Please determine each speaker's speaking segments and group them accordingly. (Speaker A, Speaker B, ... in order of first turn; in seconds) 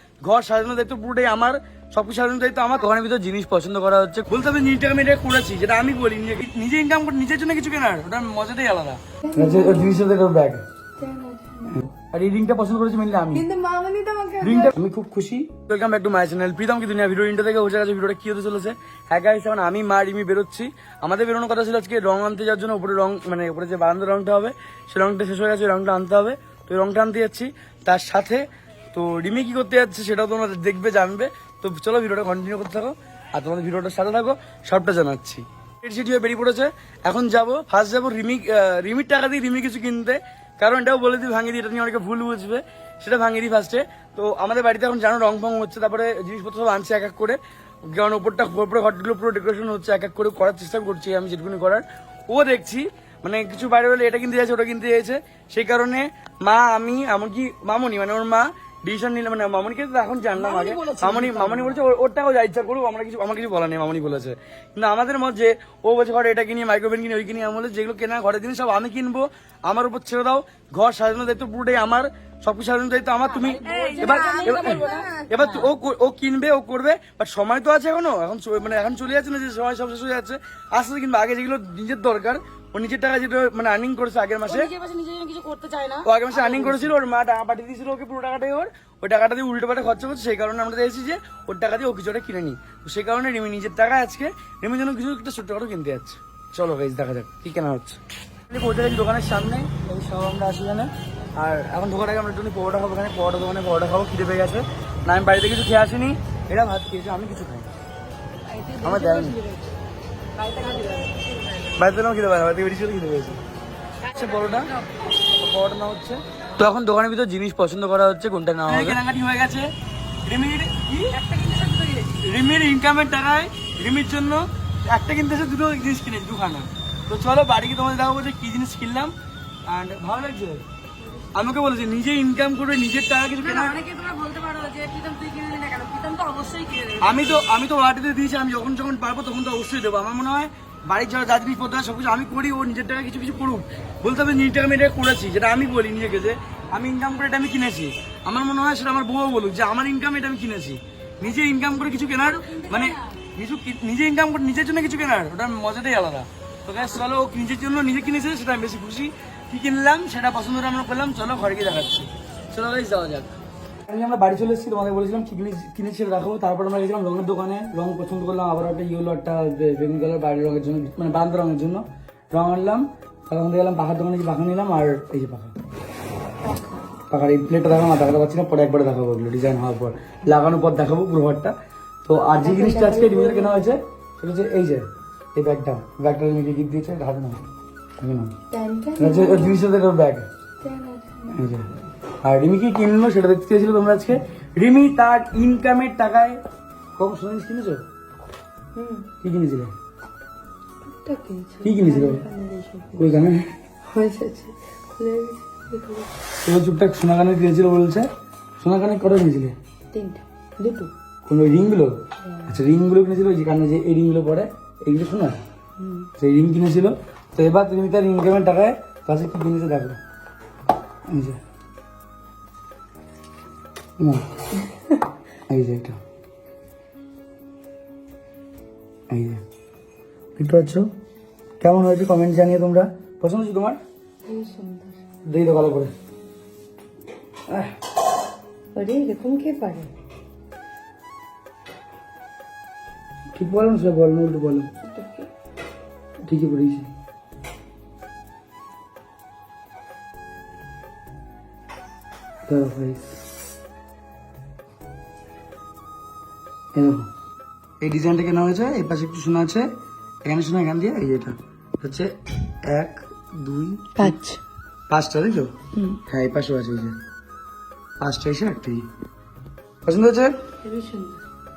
Speaker A: 0.2-10.6, 11.7-13.4, 14.4-84.7, 86.0-107.7, 108.8-109.4, 111.7-113.4, 114.0-119.7, 120.2-121.4, 121.9-129.1, 129.7-130.6, 131.3-133.8, 137.0-163.4, 163.9-175.5, 177.1-181.5, 182.0-184.8, 185.3-187.4, 188.0-188.3, 189.0-190.3, 191.3-191.7, 192.2-196.4, 196.9-197.8, 199.2-199.7, 201.6-202.2, 202.9-203.5, 206.4-208.1, 208.6-209.5, 211.3-215.4, 216.2-220.0, 221.1-221.4, 224.0-224.2, 225.5-226.0, 229.1-229.4, 230.4-230.9, 231.6-233.8, 235.3-235.9, 243.3-244.7, 246.2-246.9, 252.5-253.1, 256.7-257.1, 257.8-259.7, 260.2-264.1, 264.9-265.5, 266.1-267.0, 268.0-268.9, 269.8-270.4
Speaker B: 9.2-10.0, 11.0-11.8, 13.3-14.7, 73.6-75.3, 176.4-176.8, 182.4-183.8, 188.5-189.6, 190.6-191.4, 198.8-199.1, 200.8-203.2, 203.9-206.1, 209.9-210.9, 212.2-212.5, 215.8-216.1, 234.2-235.0, 238.7-239.9, 244.8-245.3, 263.9-264.4, 265.7-266.0, 270.6-271.2
Speaker C: 60.4-61.8, 73.5-74.8, 84.5-86.8, 108.5-109.6, 110.4-111.3, 121.2-122.0, 133.4-137.2